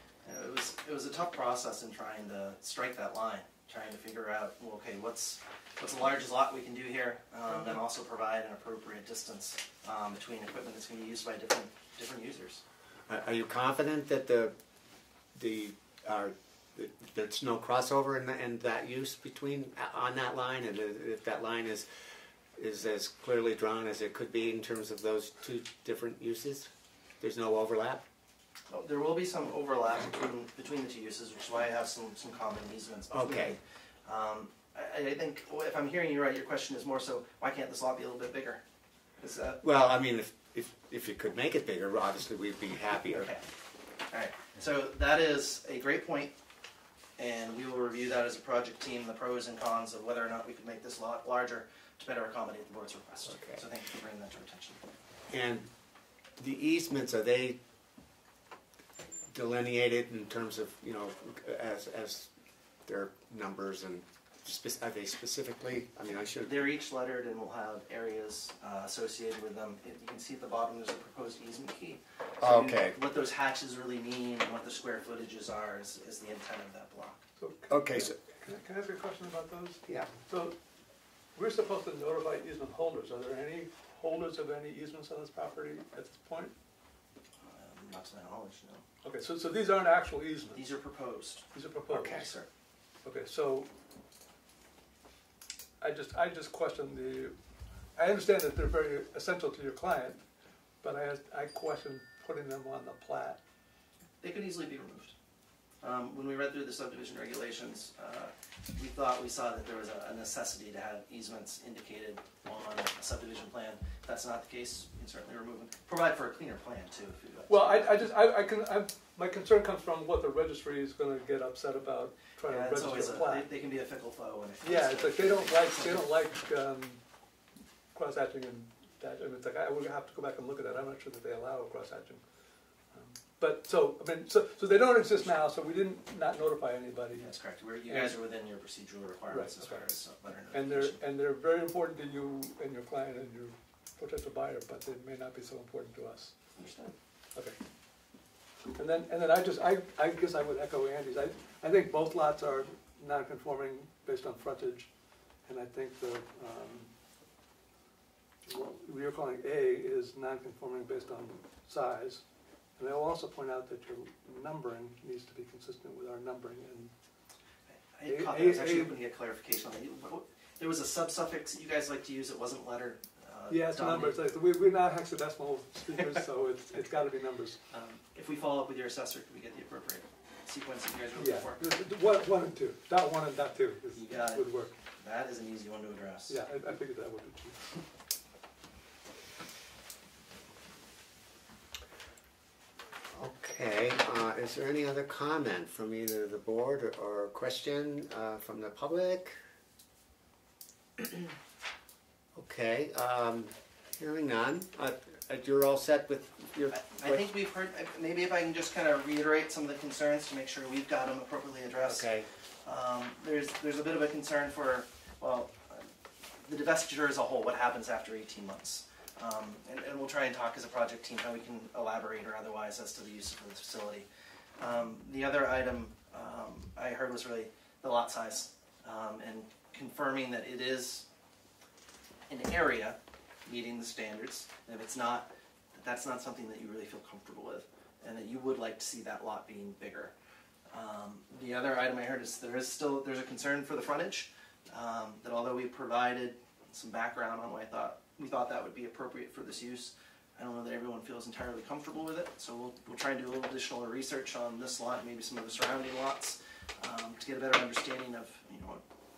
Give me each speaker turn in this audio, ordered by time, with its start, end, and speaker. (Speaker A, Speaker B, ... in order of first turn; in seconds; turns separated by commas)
Speaker A: 0.2-12.6, Speaker B: 13.1-14.6, Speaker B: 15.3-21.9, Speaker B: 22.6-28.0, Speaker A: 28.7-38.6, Speaker B: 33.1-33.6, Speaker A: 39.2-39.6, Speaker B: 39.6-43.3, Speaker A: 43.1-43.5, Speaker A: 44.1-46.3, Speaker A: 47.2-54.8, Speaker B: 53.3-53.6, Speaker B: 55.3-55.7, Speaker B: 56.4-57.6, Speaker B: 59.3-62.3, Speaker B: 62.9-66.6, Speaker A: 66.4-77.2, Speaker B: 72.4-73.0, Speaker C: 77.4-80.5, Speaker B: 77.7-78.1, Speaker C: 81.3-86.5, Speaker A: 87.4-88.8, Speaker C: 89.0-90.6, Speaker A: 90.5-91.5, Speaker C: 91.5-92.3, Speaker B: 91.9-92.3, Speaker A: 92.2-92.5, Speaker C: 93.0-93.7, Speaker C: 95.8-97.3, Speaker C: 98.0-100.2, Speaker C: 100.8-103.4, Speaker A: 104.2-105.1, Speaker A: 105.8-118.1, Speaker C: 117.5-123.5, Speaker A: 122.5-126.2, Speaker C: 124.6-127.0, Speaker C: 127.9-132.2, Speaker C: 132.9-137.3, Speaker A: 135.0-135.5, Speaker A: 137.2-141.0, Speaker C: 137.9-138.2, Speaker C: 139.3-146.3, Speaker A: 146.6-146.9, Speaker C: 148.7-154.9, Speaker C: 155.4-156.9, Speaker C: 158.4-162.2, Speaker C: 162.8-166.9, Speaker A: 167.9-174.2, Speaker C: 168.1-168.9, Speaker C: 173.5-177.6, Speaker A: 175.9-176.2, Speaker A: 177.7-181.6, Speaker C: 181.2-184.7, Speaker A: 183.9-186.4, Speaker C: 186.3-187.7, Speaker B: 193.1-199.4, Speaker B: 202.3-207.2, Speaker A: 206.7-212.1, Speaker B: 211.8-212.3, Speaker A: 212.6-215.8, Speaker A: 216.4-224.1, Speaker A: 224.6-231.1, Speaker A: 232.3-240.1, Speaker A: 240.7-258.8